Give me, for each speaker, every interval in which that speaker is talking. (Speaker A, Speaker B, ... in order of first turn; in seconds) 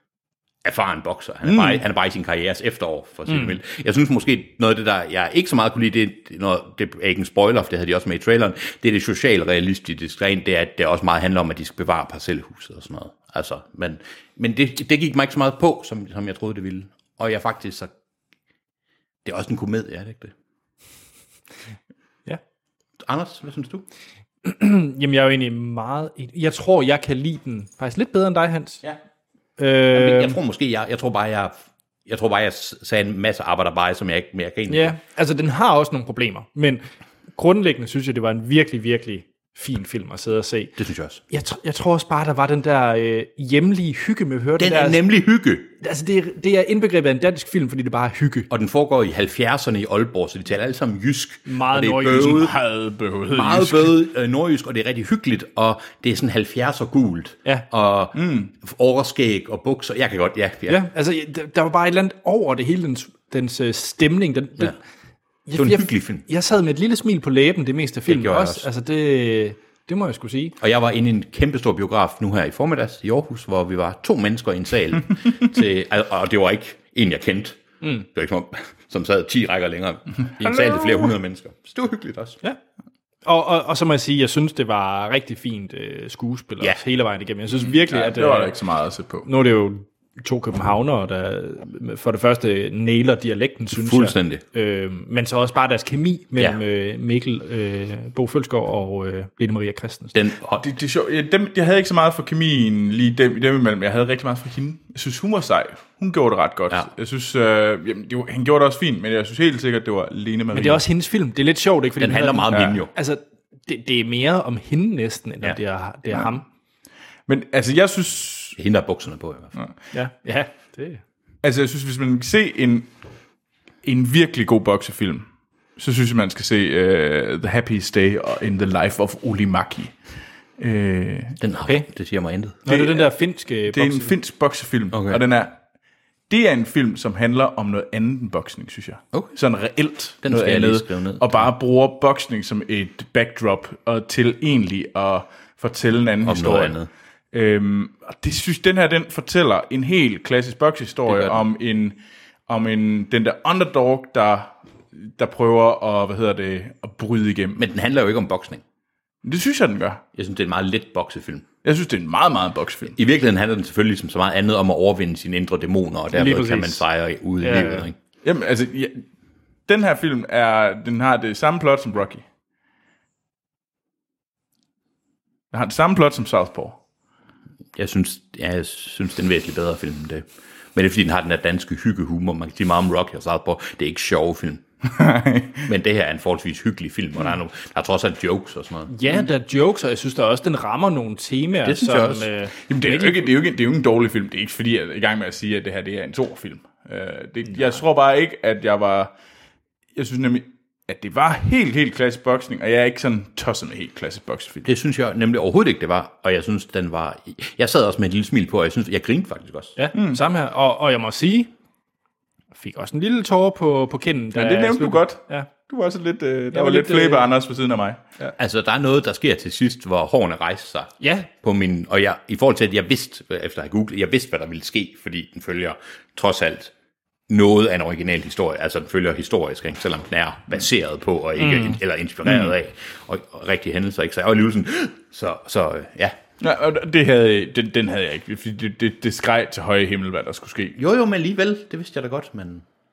Speaker A: 0.6-17.9, 19.2-20.3, 23.0-23.8, 29.9-35.0, 40.8-41.2, 44.6-45.7, 48.5-52.5, 53.3-60.8, 65.5-66.2, 68.0-68.7, 70.6-82.4, 93.7-94.4, 100.1-100.6, 112.0-112.9, 118.6-119.5, 131.4-132.6, 134.9-135.2, 140.2-141.5, 146.2-146.9, 151.1-151.4, 157.6-158.6, 160.1-161.5, 162.9-167.9, 177.8-184.6, 185.6-189.2, 191.6-192.3, 204.6-209.8, 218.4-226.7, 227.3-236.2, 240.8-242.6
Speaker B: 1.4-1.8, 52.1-54.0, 58.1-58.5, 80.5-81.0, 87.8-89.3, 100.6-110.8, 117.3-118.6, 121.4-122.9, 123.8-125.2, 125.8-129.9, 130.6-131.3, 132.7-135.6, 136.3-146.8, 147.3-152.0, 152.5-157.6, 159.2-160.0, 161.6-162.9, 168.2-169.0, 169.7-172.2, 175.5-176.8, 184.9-185.6, 192.7-199.1, 199.9-204.6, 209.9-210.2, 214.3-218.0, 236.4-240.8
Speaker C: 3.3-3.5, 24.4-28.8, 29.6-30.4, 34.7-36.8, 37.3-40.7, 41.3-45.0, 45.8-48.5, 51.5-52.5, 60.7-64.8, 65.5-70.5, 83.2-88.5, 89.2-100.1, 110.5-116.4, 119.9-121.0, 132.6-134.1, 166.1-166.8, 167.4-167.9, 188.9-193.2, 197.5-197.8, 209.8-211.5, 212.6-215.5, 216.5-217.3, 221.0-221.3, 231.4-231.8